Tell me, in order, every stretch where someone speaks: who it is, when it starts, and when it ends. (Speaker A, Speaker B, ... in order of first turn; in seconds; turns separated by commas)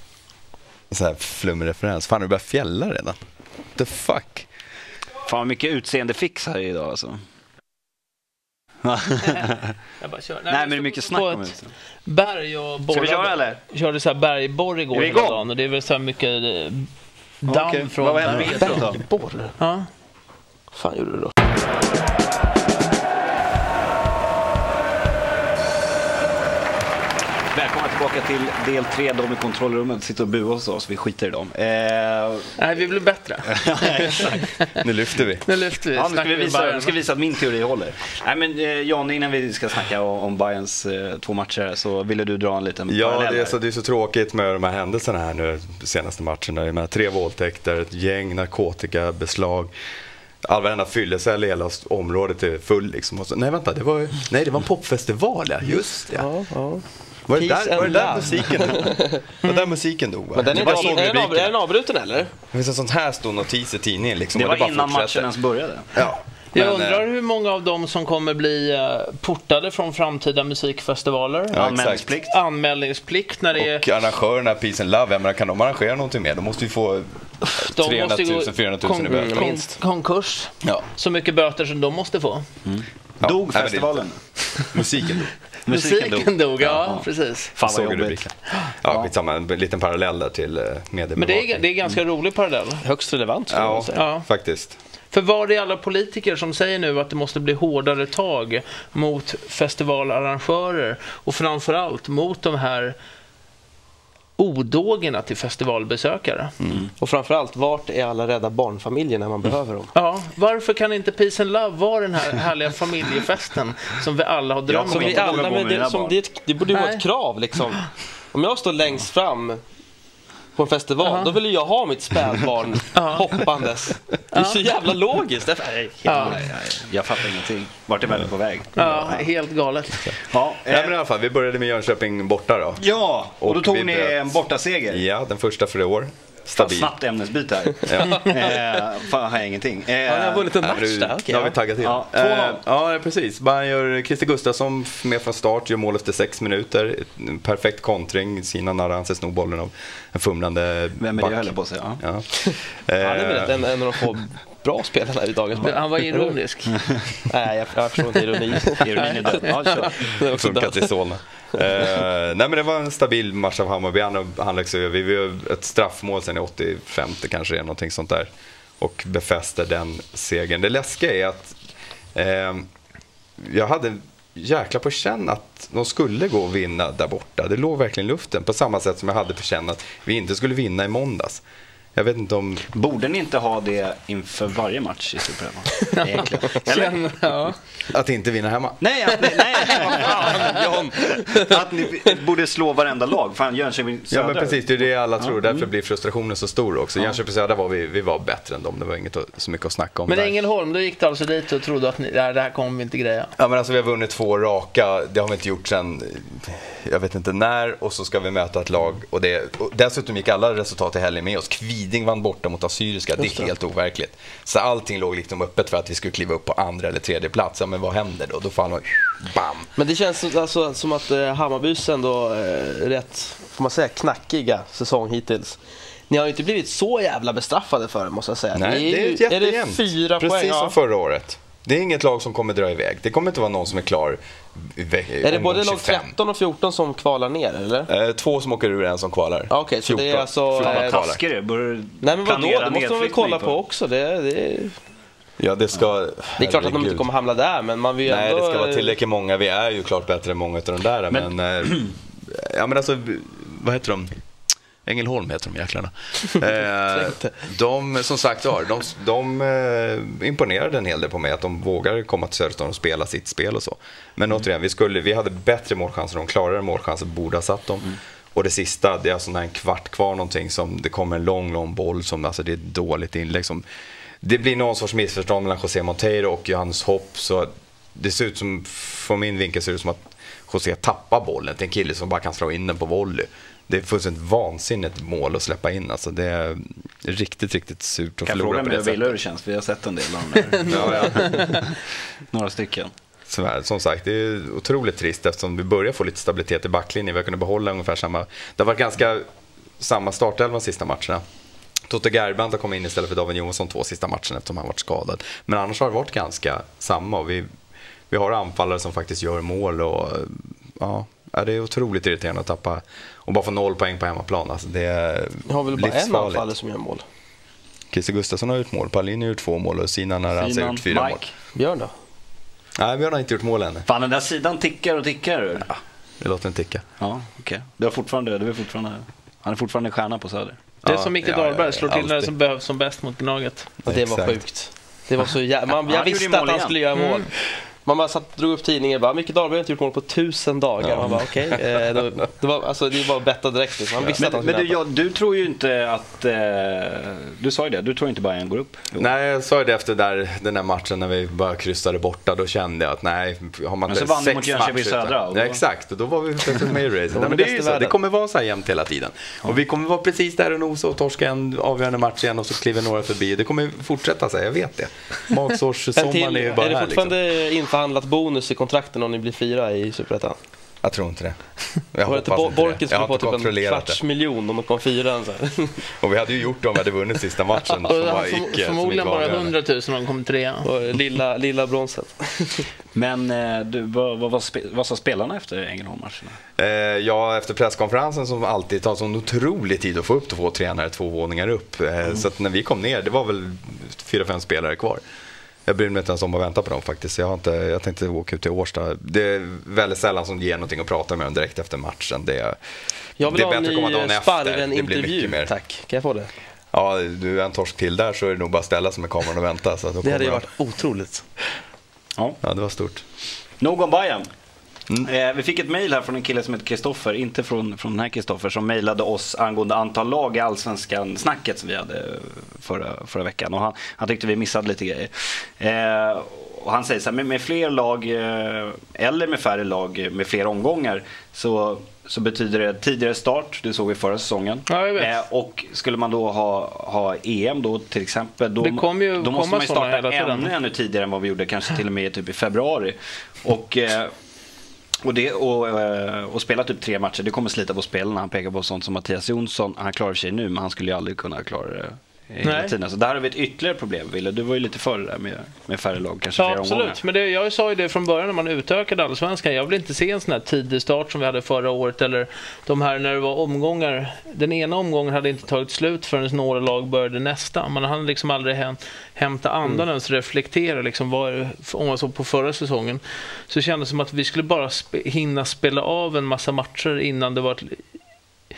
Speaker A: 0.9-3.1, Speaker A: 3.8-4.5, Speaker B: 5.2-7.2, Speaker B: 8.8-9.7, Speaker C: 10.0-11.5, Speaker B: 10.5-11.7, Speaker C: 12.1-16.9, Speaker B: 12.9-13.6, Speaker B: 14.9-15.4, Speaker C: 17.4-18.9, Speaker B: 17.4-19.0, Speaker D: 18.4-19.5, Speaker C: 19.6-19.9, Speaker D: 20.7-21.3, Speaker B: 27.5-32.5, Speaker C: 32.6-34.6, Speaker B: 33.5-34.5, Speaker A: 34.8-35.5, Speaker C: 35.5-36.9, Speaker B: 35.9-43.5, Speaker A: 42.9-49.7, Speaker A: 50.4-56.3, Speaker D: 56.0-59.2, Speaker A: 57.3-61.5, Speaker D: 60.4-62.3, Speaker B: 60.5-61.1, Speaker A: 62.5-65.3, Speaker B: 64.3-65.9, Speaker A: 65.9-67.0, Speaker C: 66.5-73.8, Speaker A: 71.5-72.1, Speaker B: 71.5-72.4, Speaker A: 73.5-79.5, Speaker C: 77.5-82.4, Speaker D: 79.1-79.7, Speaker B: 82.6-84.2, Speaker A: 83.2-84.0, Speaker A: 84.6-85.3, Speaker B: 85.7-88.3, Speaker C: 85.7-87.5, Speaker A: 87.6-91.6, Speaker C: 91.2-92.8, Speaker D: 92.8-94.0, Speaker A: 93.5-94.8, Speaker C: 93.9-94.3, Speaker C: 95.1-103.0, Speaker C: 104.4-106.5, Speaker D: 107.0-109.9, Speaker C: 109.9-115.5, Speaker B: 114.7-116.2, Speaker D: 114.9-119.6, Speaker C: 116.7-117.0, Speaker D: 120.5-126.3, Speaker C: 121.0-121.3, Speaker C: 122.9-123.3, Speaker C: 124.3-124.6, Speaker C: 126.0-126.4, Speaker B: 126.1-129.2, Speaker C: 128.8-130.1, Speaker B: 130.2-131.0, Speaker A: 130.7-132.8, Speaker B: 132.8-135.0, Speaker A: 133.4-134.4, Speaker A: 134.9-136.9, Speaker B: 136.5-140.5, Speaker A: 137.8-138.4, Speaker D: 137.9-138.8, Speaker D: 140.1-141.6, Speaker A: 140.6-153.6, Speaker B: 141.8-142.6, Speaker B: 151.0-152.0, Speaker D: 152.4-156.4, Speaker C: 155.6-156.8, Speaker D: 157.2-160.9, Speaker B: 158.7-160.1, Speaker C: 158.9-159.9, Speaker A: 160.2-171.6, Speaker A: 172.1-172.7, Speaker A: 173.4-181.4, Speaker A: 181.9-182.6, Speaker B: 182.7-187.5, Speaker C: 185.9-187.6, Speaker A: 187.9-188.8, Speaker B: 188.8-195.6, Speaker D: 189.6-191.6, Speaker A: 194.1-200.3, Speaker C: 200.1-203.3, Speaker A: 203.4-219.7, Speaker D: 219.8-225.6, Speaker D: 226.1-230.7, Speaker A: 228.5-236.1, Speaker D: 235.2-237.9, Speaker A: 237.9-241.2, Speaker D: 239.5-241.0, Speaker B: 240.6-243.5, Speaker D: 242.0-244.7, Speaker A: 245.4-247.1, Speaker D: 246.4-248.9, Speaker A: 248.1-254.1, Speaker B: 251.1-251.9, Speaker A: 254.8-273.6, Speaker D: 257.0-257.2, Speaker A: 274.2-289.1, Speaker B: 288.2-291.8, Speaker C: 290.5-291.7, Speaker A: 290.6-291.4, Speaker B: 292.3-292.9, Speaker A: 293.3-299.3, Speaker A: 299.8-301.2, Speaker A: 301.9-307.5, Speaker A: 308.1-316.5, Speaker D: 315.5-317.0, Speaker A: 317.9-321.2, Speaker B: 320.3-321.3, Speaker D: 321.6-321.9, Speaker A: 322.8-323.9, Speaker B: 323.9-325.8, Speaker A: 326.2-326.8, Speaker B: 327.0-330.6, Speaker A: 330.8-332.3, Speaker C: 330.8-333.7, Speaker A: 333.8-334.4, Speaker D: 333.8-337.3, Speaker B: 335.8-336.8, Speaker C: 336.9-337.3, Speaker D: 337.8-344.8, Speaker A: 340.8-341.3, Speaker B: 344.1-349.1, Speaker A: 348.9-367.1, Speaker B: 353.9-355.6, Speaker D: 357.1-357.9, Speaker D: 365.9-370.4, Speaker A: 370.8-371.4, Speaker A: 371.9-374.0, Speaker D: 372.1-375.8, Speaker A: 376.0-379.5, Speaker C: 377.7-380.7, Speaker D: 380.6-382.7, Speaker B: 382.9-386.4, Speaker A: 386.6-395.0, Speaker A: 395.7-402.6, Speaker D: 403.2-406.3, Speaker A: 403.2-405.5, Speaker A: 406.7-410.5, Speaker D: 410.0-411.2, Speaker A: 412.4-413.0, Speaker B: 413.6-414.3, Speaker B: 415.0-444.1, Speaker C: 434.7-435.2, Speaker C: 438.6-440.5, Speaker B: 445.0-457.0, Speaker C: 452.4-452.7, Speaker C: 456.4-477.8